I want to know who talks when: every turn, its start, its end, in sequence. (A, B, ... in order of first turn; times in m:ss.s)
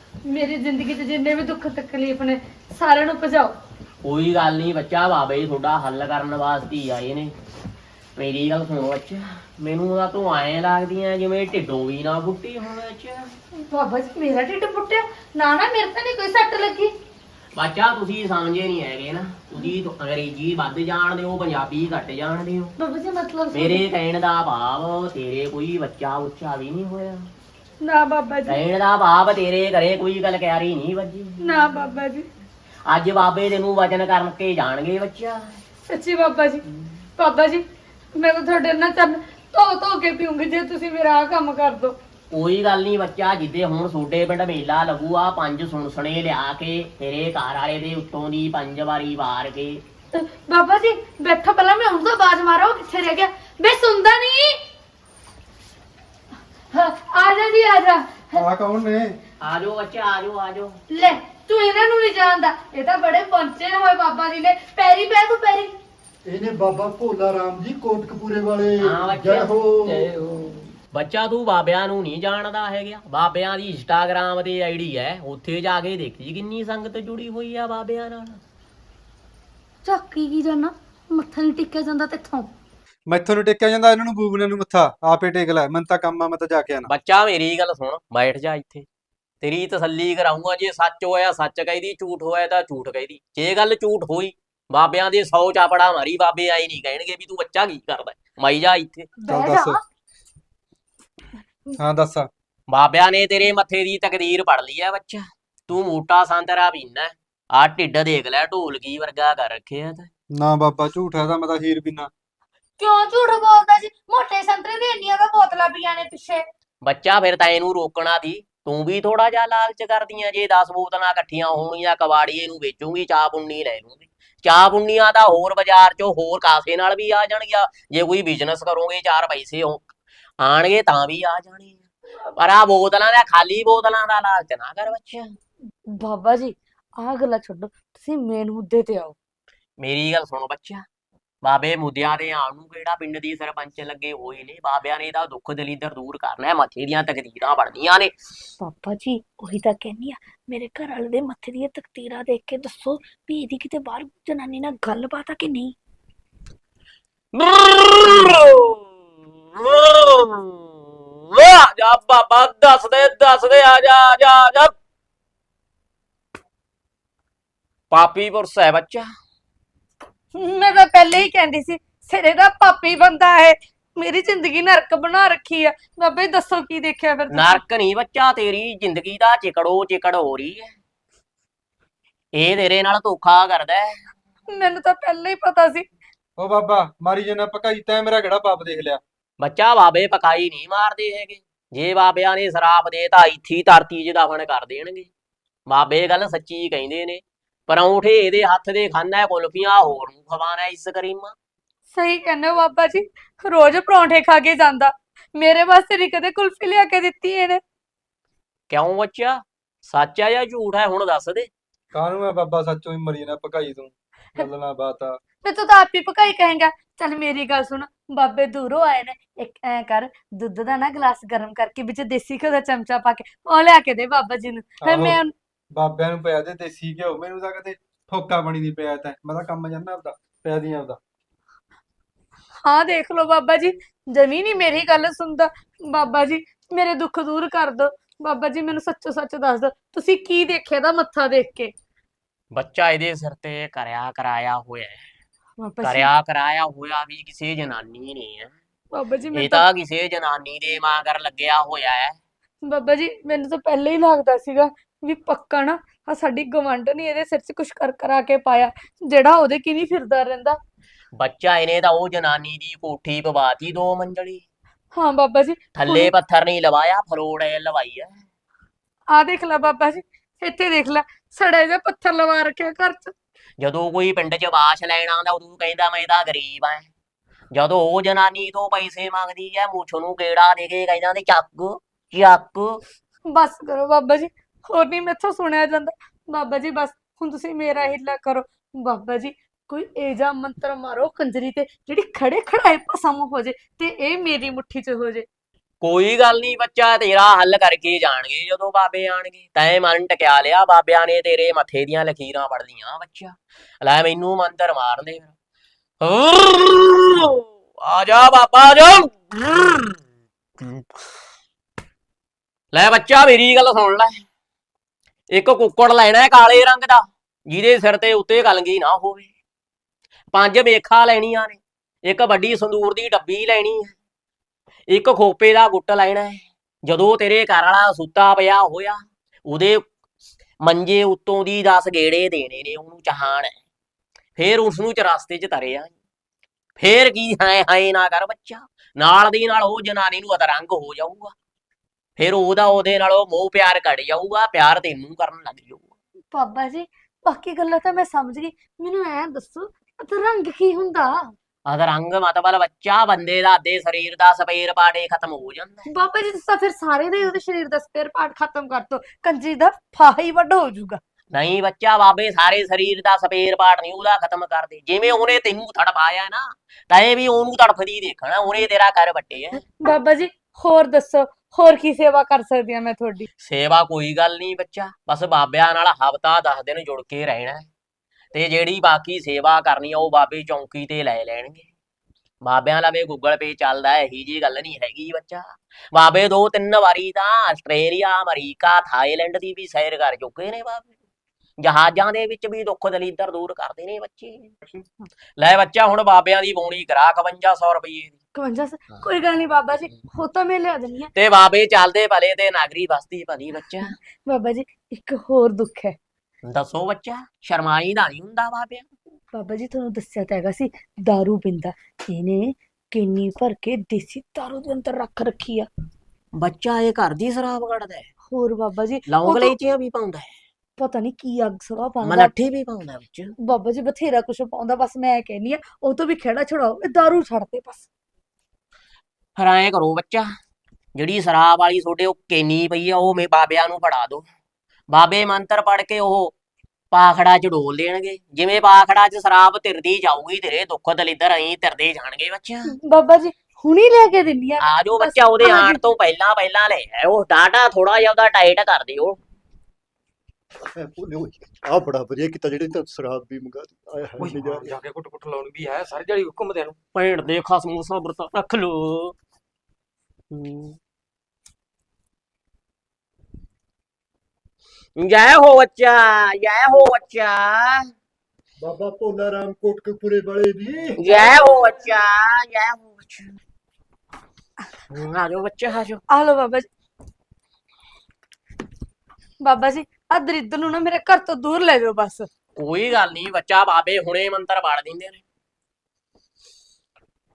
0:00.2-0:03.6 A
0:04.0-0:07.3 B
0:08.2-0:13.3 B
0:13.6-0:16.9 A
0:17.5-0:22.7 B
0:22.8-0:23.8 A
0:23.5-0:27.3 B
0:27.8-0:28.6 A
0:28.4-0:31.6 B
0:31.4-0:32.3 A
0:32.8-0:35.6 B
0:35.9-0:36.6 A
0:37.2-0:37.6 A
0:38.1-0:42.0 A
0:42.3-0:49.8 B
0:50.1-0:54.6 A
0:56.7-0:58.4 A
0:58.3-0:59.1 C
0:59.4-1:00.8 B
1:00.9-1:05.7 A
1:06.2-1:10.2 D
1:08.8-1:09.5 B
1:10.1-1:10.6 E
1:10.9-1:18.4 B
1:19.8-1:22.5 A
1:23.0-1:26.9 C
1:26.9-1:28.8 B
1:29.4-1:39.1 B
1:39.2-1:39.8 A
1:39.3-1:39.8 C
1:41.8-1:42.3 C
1:42.7-1:50.1 B
1:50.3-1:52.1 C
1:52.8-1:56.4 A
1:56.8-2:09.8 B
2:10.4-2:11.8 B
2:12.3-2:15.3 B
2:15.9-2:19.2 A
2:19.8-2:20.8 B
2:21.4-2:28.1 B
2:28.6-2:35.8 A
2:37.3-2:38.9 B
2:39.5-2:44.7 B
2:47.9-2:49.1 B
2:50.3-2:57.6 A
2:57.3-3:00.7 B
3:02.3-3:03.9 B
3:04.5-3:05.8 A
3:06.4-3:09.0 C
3:09.4-3:15.1 B
3:15.7-3:21.3 B
3:21.9-3:27.6 A
3:28.7-3:31.5 B
3:31.9-3:35.2 C
3:35.4-3:45.3 A
3:44.8-3:45.2 C
3:45.7-3:51.0 C
3:52.6-4:01.7 A
4:02.5-4:05.0 B
4:05.6-4:06.1 A
4:05.8-4:08.5 B
4:08.9-4:09.6 A
4:09.3-4:12.2 B
4:12.7-4:20.6 A
4:21.2-4:24.4 B
4:24.9-4:26.1 A
4:25.8-4:28.2 B
4:29.1-4:33.1 A
4:33.6-4:36.9 B
4:37.5-4:42.8 B
4:43.3-4:55.3 A
4:55.8-5:05.3 B
5:06.0-5:10.0 B
5:10.6-5:10.8 B
5:12.7-5:14.1 B
5:15.3-5:19.3 B
5:20.3-5:23.9 B
5:24.9-5:29.9 B
5:30.6-5:33.5 B
5:34.4-5:35.9 B
5:36.8-5:41.3 B
5:42.2-5:45.9 B
5:46.3-5:51.3 A
5:51.6-5:55.9 B
5:55.8-6:01.0 A
6:01.3-6:09.6 B
6:09.7-6:13.3 A
6:13.4-6:17.7 B
6:18.3-6:21.7 B
6:22.4-6:30.9 B
6:31.6-6:34.5 B
6:35.4-6:38.2 B
6:38.3-6:41.1 A
6:41.2-6:43.9 B
6:44.2-6:46.0 A
6:46.4-6:48.9 B
6:49.3-6:55.7 A
6:56.4-6:58.1 B
6:58.3-6:59.5 A
6:59.1-7:00.3 B
7:00.8-7:02.3 A
7:02.0-7:03.3 B
7:03.4-7:07.9 A
7:09.4-7:10.3 B
7:10.9-7:14.2 B
7:14.9-7:16.3 B
7:16.9-7:22.7 B
7:22.8-7:25.8 A
7:24.6-7:29.2 B
7:30.7-7:34.8 D
7:34.2-7:36.8 E
7:36.9-7:39.1 B
7:40.3-7:40.8 B
7:45.0-7:47.8 B
7:48.6-7:51.0 D
7:51.0-7:53.4 B
7:54.9-7:56.0 B
7:56.1-7:56.7 A
7:59.4-8:02.3 A
8:02.6-8:05.2 B